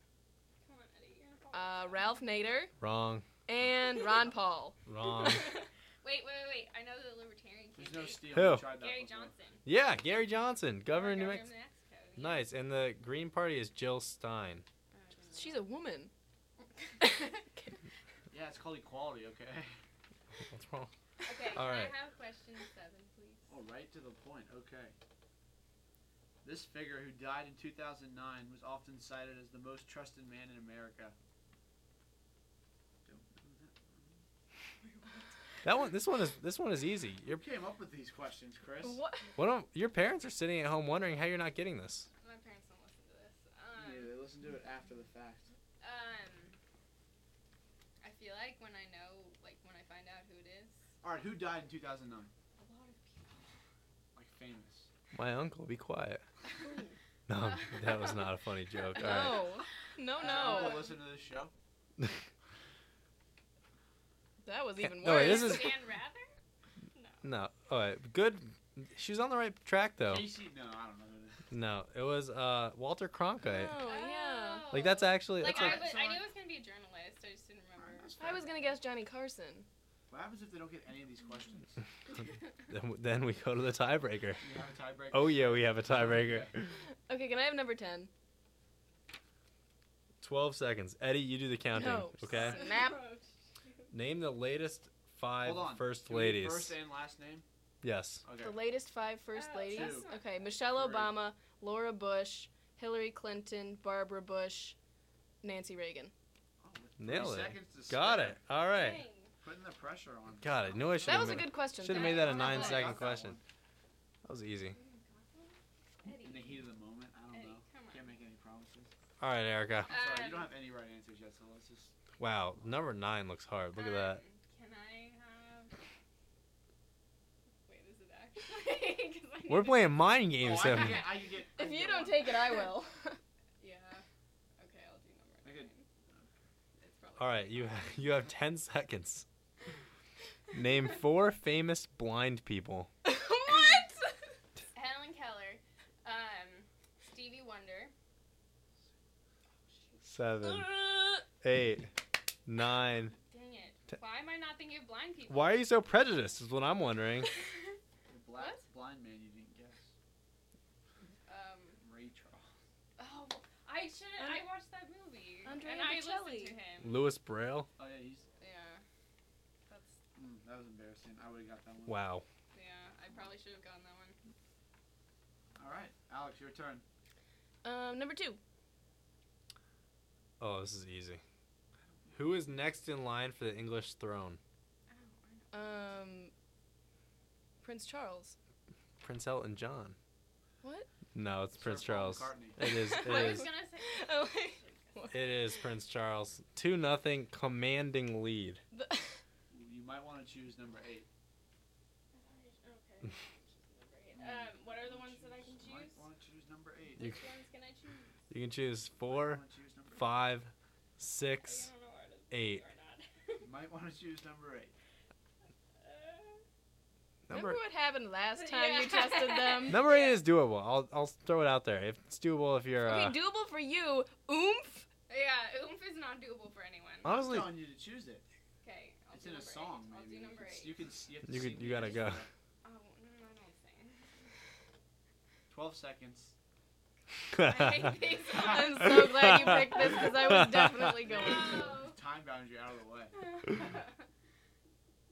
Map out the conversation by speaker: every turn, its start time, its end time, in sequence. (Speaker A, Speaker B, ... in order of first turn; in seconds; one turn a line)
Speaker A: 0.6-2.3
Speaker B: 1.5-2.7
Speaker C: 2.8-3.2
Speaker B: 3.5-5.4
Speaker C: 4.9-5.5
Speaker A: 5.2-9.6
Speaker D: 7.8-9.3
Speaker C: 8.3-8.7
Speaker C: 9.7-11.5
Speaker A: 10.9-12.4
Speaker C: 12.2-14.6
Speaker A: 14.9-15.7
Speaker B: 15.3-16.1
Speaker B: 17.0-17.8
Speaker D: 18.3-19.7
Speaker C: 20.5-20.9
Speaker A: 21.2-23.5
Speaker C: 21.5-21.9
Speaker D: 23.5-24.9
Speaker D: 26.4-31.1
Speaker D: 33.0-34.2
Speaker A: 34.8-35.3
Speaker C: 35.6-37.4
Speaker D: 37.2-39.0
Speaker B: 38.8-39.3
Speaker C: 39.4-42.1
Speaker A: 42.2-44.1
Speaker D: 43.8-45.5
Speaker A: 45.8-46.5
Speaker A: 48.0-50.8
Speaker D: 51.0-52.3
Speaker A: 52.6-53.3
Speaker D: 54.1-54.9
Speaker C: 55.1-56.2
Speaker C: 57.3-59.4
Speaker A: 57.4-59.4
Speaker B: 58.9-60.9
Speaker A: 60.2-60.9
Speaker D: 60.2-61.5
Speaker B: 64.4-65.8
Speaker C: 64.8-65.8
Speaker A: 65.0-66.3
Speaker A: 66.9-67.2
Speaker C: 67.2-70.3
Speaker D: 70.0-71.4
Speaker C: 71.5-73.8
Speaker B: 73.4-74.7
Speaker A: 73.8-78.4
Speaker C: 74.7-75.9
Speaker D: 75.4-76.3
Speaker D: 77.8-78.8
Speaker B: 78.2-79.7
Speaker D: 80.1-81.8
Speaker C: 82.7-84.4
Speaker D: 84.4-86.5
Speaker C: 85.1-86.7
Speaker B: 87.1-88.1
Speaker C: 90.2-92.6
Speaker B: 91.7-93.1
Speaker D: 92.3-92.5
Speaker A: 92.3-93.8
Speaker C: 93.9-96.8
Speaker D: 95.4-97.4
Speaker C: 97.8-98.2
Speaker D: 98.2-98.6
Speaker B: 98.4-104.8
Speaker A: 99.3-100.5
Speaker D: 99.7-101.2
Speaker B: 105.4-106.1
Speaker D: 106.6-108.4
Speaker C: 107.0-109.0
Speaker A: 108.7-109.3
Speaker D: 109.4-110.7
Speaker C: 110.4-113.4
Speaker B: 111.0-112.7
Speaker A: 111.8-113.0
Speaker D: 112.3-113.4
Speaker C: 114.2-114.8
Speaker A: 114.7-116.6
Speaker D: 116.2-118.9
Speaker A: 117.3-118.1
Speaker C: 119.2-119.9
Speaker A: 119.8-120.5
Speaker D: 119.9-121.9
Speaker C: 122.2-124.2
Speaker A: 123.7-125.7
Speaker A: 127.6-130.9
Speaker C: 129.5-131.1
Speaker D: 130.4-132.3
Speaker B: 131.6-133.2
Speaker A: 133.6-134.0
Speaker A: 134.6-135.9
Speaker D: 135.4-136.2
Speaker A: 136.8-138.1
Speaker C: 137.2-139.2
Speaker C: 140.5-142.9
Speaker B: 143.0-144.1
Speaker A: 143.5-143.8
Speaker A: 144.7-147.9
Speaker C: 150.0-150.8
Speaker B: 150.4-151.2
Speaker C: 151.4-151.9
Speaker C: 152.4-153.1
Speaker A: 153.3-155.6
Speaker C: 155.3-157.3
Speaker D: 158.1-159.9
Speaker A: 161.3-161.8
Speaker D: 161.8-162.5
Speaker A: 163.0-167.0
Speaker B: 164.2-164.4
Speaker B: 165.4-166.6
Speaker C: 166.8-167.7
Speaker D: 167.8-168.2
Speaker A: 168.4-168.8
Speaker A: 169.7-170.0
Speaker D: 170.1-172.0
Speaker C: 171.8-172.2
Speaker A: 172.5-174.2
Speaker D: 175.6-176.8
Speaker B: 177.6-178.4
Speaker C: 180.4-181.2
Speaker D: 181.9-182.3
Speaker C: 182.1-184.4
Speaker A: 184.9-185.9
Speaker B: 185.5-186.3
Speaker B: 187.6-188.3
Speaker C: 189.0-189.9
Speaker B: 190.6-190.9
Speaker C: 191.1-193.5
Speaker D: 191.6-192.6
Speaker B: 192.6-195.2
Speaker A: 192.9-195.3
Speaker C: 195.1-198.6
Speaker B: 198.7-199.2
Speaker D: 199.5-201.1
Speaker A: 202.1-206.0
Speaker D: 204.2-207.1
Speaker A: 207.0-208.1
Speaker C: 208.3-209.4
Speaker D: 209.1-210.1
Speaker C: 209.9-211.7
Speaker A: 211.4-213.4
Speaker C: 212.3-212.6
Speaker D: 213.4-214.7
Speaker A: 215.8-216.4
Speaker C: 217.3-217.6
Speaker B: 217.3-219.8
Speaker A: 218.3-220.2
Speaker C: 219.7-223.2
Speaker B: 222.8-224.9
Speaker A: 225.1-227.1
Speaker C: 227.0-227.6
Speaker D: 227.0-228.2
Speaker A: 228.6-230.8
Speaker D: 229.1-232.3
Speaker C: 231.3-232.2
Speaker A: 232.6-234.1
Speaker D: 235.5-236.3
Speaker C: 237.3-238.0
Speaker A: 237.4-239.3
Speaker D: 238.2-238.8
Speaker B: 238.2-241.8
Speaker C: 238.8-241.0
Speaker D: 241.1-243.1
Speaker A: 241.1-242.0
Speaker A: 243.2-243.9